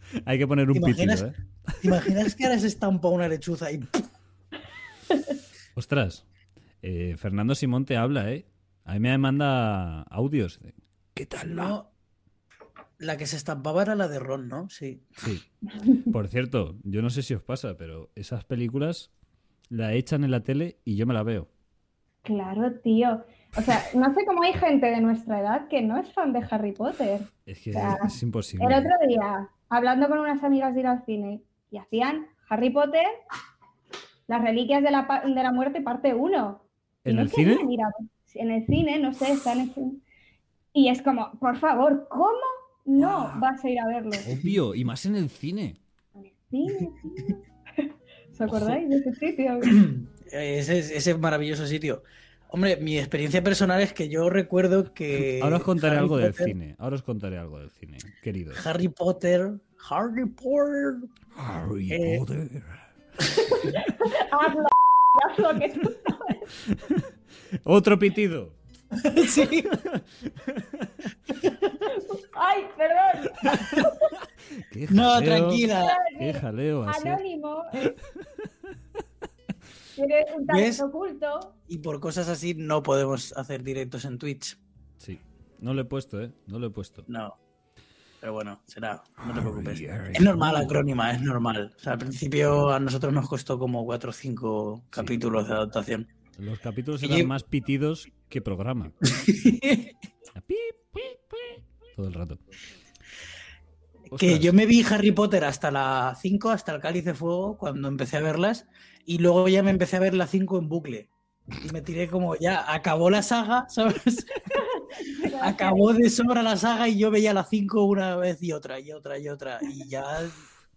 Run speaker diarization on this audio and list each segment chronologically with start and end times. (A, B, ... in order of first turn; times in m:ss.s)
0:00.2-0:02.0 A
0:00.7-0:01.3 B
0:01.8-0:04.1 B
0:05.8-0:06.2 A
0:06.8-0:11.8 A
0:11.4-0:11.9 B
0:13.0-0:15.1 B
0:16.0-0:19.1 A
0:19.7-0:21.5 A
0:22.2-0:33.1 C
0:27.5-0:28.9 A
0:34.3-0:40.0 C
0:37.0-0:37.7 A
0:40.7-0:44.2 C
0:43.0-0:43.4 A
0:44.2-0:45.8 A
0:46.2-0:49.8 C
0:48.5-0:48.8 A
0:49.6-0:56.5 B
0:55.2-0:58.6 A
0:58.5-1:01.1 B
1:01.4-1:02.9 A
1:01.9-1:02.2 B
1:03.4-1:06.5 C
1:06.7-1:07.1 A
1:07.6-1:08.6 A
1:08.9-1:09.8 B
1:09.7-1:10.9 A
1:11.7-1:14.1 C
1:13.5-1:13.8 A
1:14.6-1:17.2 A
1:14.9-1:16.0 B
1:15.7-1:17.9 C
1:20.0-1:21.5 C
1:20.5-1:20.8 B
1:21.7-1:24.6 B
1:25.0-1:27.1 A
1:27.1-1:27.4 B
1:28.2-1:36.1 B
1:29.3-1:30.7 A
1:36.4-1:38.9 A
1:37.0-1:37.3 B
1:39.0-1:39.9 B
1:40.4-1:42.4 A
1:44.1-1:44.5 A
1:44.1-1:54.5 B
1:54.5-1:55.9 C
1:55.4-2:00.4 B